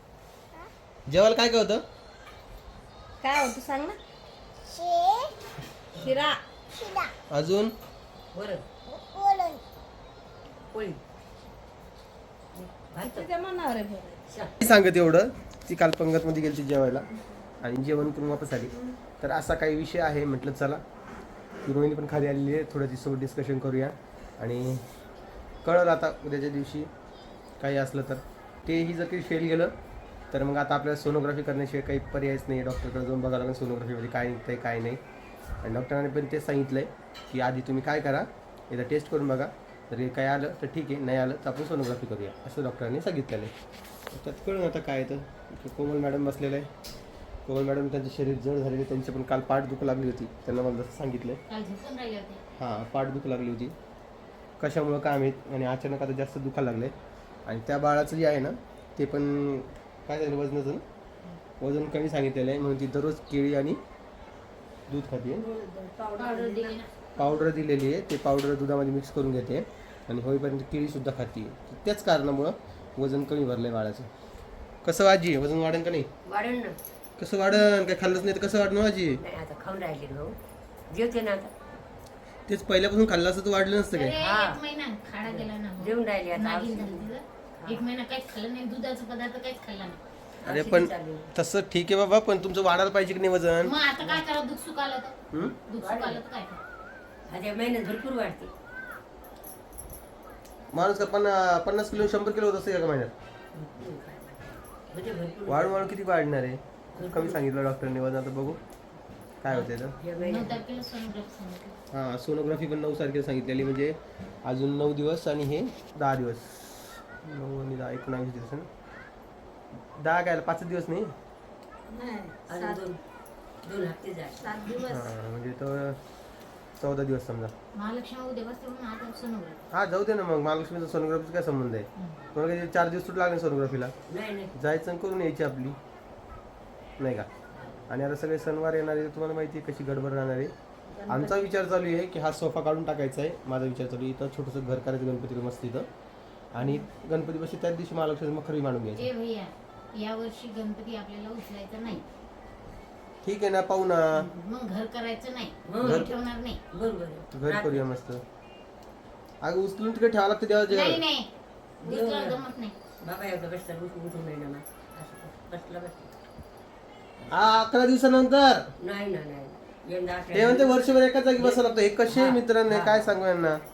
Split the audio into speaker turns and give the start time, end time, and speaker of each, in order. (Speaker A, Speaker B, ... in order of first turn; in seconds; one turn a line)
Speaker A: 1.1-1.8
Speaker B: 3.2-4.0
Speaker C: 4.6-5.4
Speaker B: 6.0-6.4
Speaker C: 6.7-7.1
Speaker A: 7.3-7.7
Speaker D: 8.3-8.6
Speaker C: 8.9-9.6
Speaker D: 10.7-11.0
Speaker D: 12.5-13.3
Speaker B: 13.0-14.2
Speaker D: 14.3-14.6
Speaker A: 14.6-17.1
Speaker A: 17.6-20.8
Speaker A: 21.6-24.8
Speaker A: 25.6-26.9
Speaker A: 27.6-29.7
Speaker A: 30.3-35.0
Speaker A: 35.6-43.5
Speaker A: 44.1-46.7
Speaker A: 47.5-51.4
Speaker E: 51.5-52.4
Speaker A: 52.6-53.8
Speaker A: 54.6-56.9
Speaker A: 57.5-60.8
Speaker A: 61.6-63.8
Speaker A: 64.9-65.5
Speaker B: 65.3-66.8
Speaker E: 66.1-66.9
Speaker A: 67.2-74.1
Speaker A: 74.8-76.1
Speaker D: 76.2-76.8
Speaker A: 77.2-79.2
Speaker D: 79.2-80.4
Speaker D: 80.9-81.5
Speaker A: 82.5-84.1
Speaker E: 83.9-90.0
Speaker D: 84.2-84.6
Speaker D: 85.2-87.8
Speaker D: 90.4-91.3
Speaker A: 90.5-93.7
Speaker E: 93.6-95.2
Speaker E: 95.7-96.6
Speaker D: 95.8-96.2
Speaker D: 97.3-98.5
Speaker A: 100.7-103.1
Speaker D: 103.5-105.9
Speaker A: 105.5-108.6
Speaker D: 106.9-107.4
Speaker A: 109.4-109.9
Speaker D: 109.5-110.7
Speaker E: 110.2-111.8
Speaker A: 111.9-118.7
Speaker A: 119.9-121.1
Speaker B: 121.9-122.8
Speaker D: 122.5-123.0
Speaker D: 123.6-124.7
Speaker B: 124.4-125.1
Speaker A: 124.8-126.0
Speaker A: 126.8-127.5
Speaker E: 127.7-129.6
Speaker A: 129.7-133.9
Speaker D: 134.1-134.5
Speaker A: 134.6-135.8
Speaker A: 137.0-137.3
Speaker D: 137.6-137.8
Speaker A: 137.9-140.5
Speaker B: 140.9-141.4
Speaker A: 141.1-145.9
Speaker A: 146.5-149.1
Speaker E: 149.0-152.0
Speaker A: 153.2-154.3
Speaker E: 154.2-156.6
Speaker D: 155.7-156.2
Speaker A: 155.8-156.1
Speaker D: 156.7-157.8
Speaker A: 157.3-158.2
Speaker A: 159.4-161.0
Speaker E: 160.7-161.3
Speaker D: 161.8-162.4
Speaker E: 161.8-162.8
Speaker D: 163.0-166.1
Speaker D: 167.2-167.6
Speaker A: 167.3-168.7
Speaker D: 168.8-173.2
Speaker A: 170.3-173.6